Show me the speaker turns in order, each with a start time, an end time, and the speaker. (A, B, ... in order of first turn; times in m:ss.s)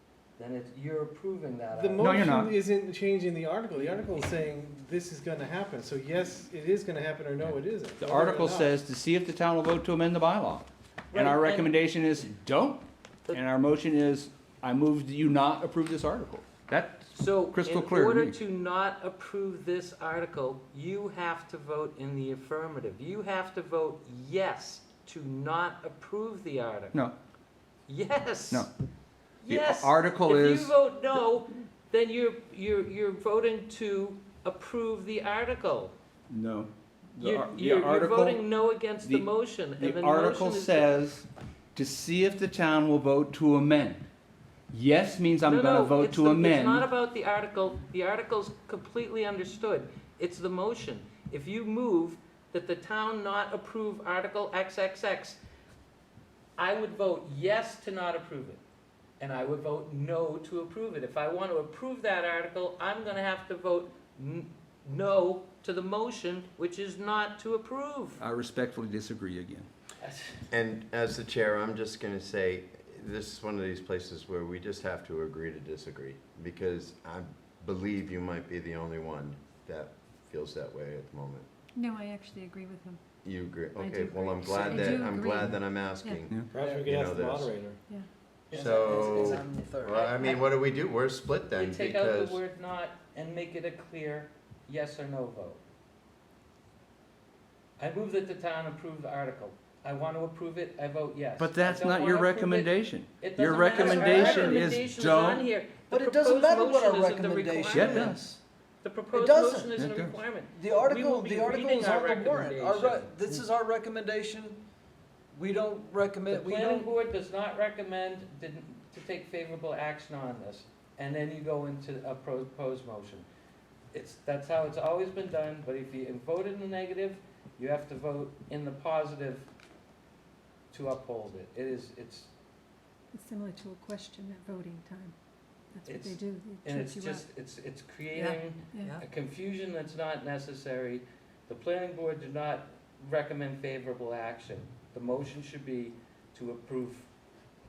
0:00.4-0:02.2 A
0:01.7-0:08.8 B
0:02.0-0:02.6 C
0:07.4-0:18.4 C
0:11.1-0:11.8 A
0:17.1-0:27.0 A
0:27.9-0:28.7 A
0:29.4-0:35.9 A
0:29.5-0:30.7 C
0:36.3-0:38.4 C
0:37.2-0:40.9 A
0:39.0-0:44.0 C
0:44.7-0:46.9 C
0:45.4-0:55.4 A
0:56.6-0:58.6 A
0:59.2-1:08.2 A
1:08.2-1:09.7 C
1:10.0-1:10.4 A
1:10.5-1:21.5 D
1:21.8-1:23.0 E
1:23.2-1:27.5 D
1:23.8-1:26.3 E
1:24.7-1:25.0 A
1:26.5-1:27.8 B
1:28.5-1:30.4 A
1:28.5-1:32.4 D
1:28.5-1:30.0 F
1:31.5-1:35.6 A
1:37.8-1:48.2 A
1:41.4-1:45.5 C
1:43.8-1:44.7 F
1:45.9-1:48.4 F
1:47.7-1:48.3 C
1:48.8-1:53.4 A
1:49.1-1:49.8 F
1:49.8-1:50.2 C
1:50.6-1:54.6 F
1:55.3-1:56.9 F
1:56.3-2:03.3 A
2:03.9-2:09.5 A
2:10.7-2:12.3 A
2:13.1-2:15.2 E
2:15.7-2:17.3 E
2:15.9-2:27.1 A
2:18.2-2:19.0 E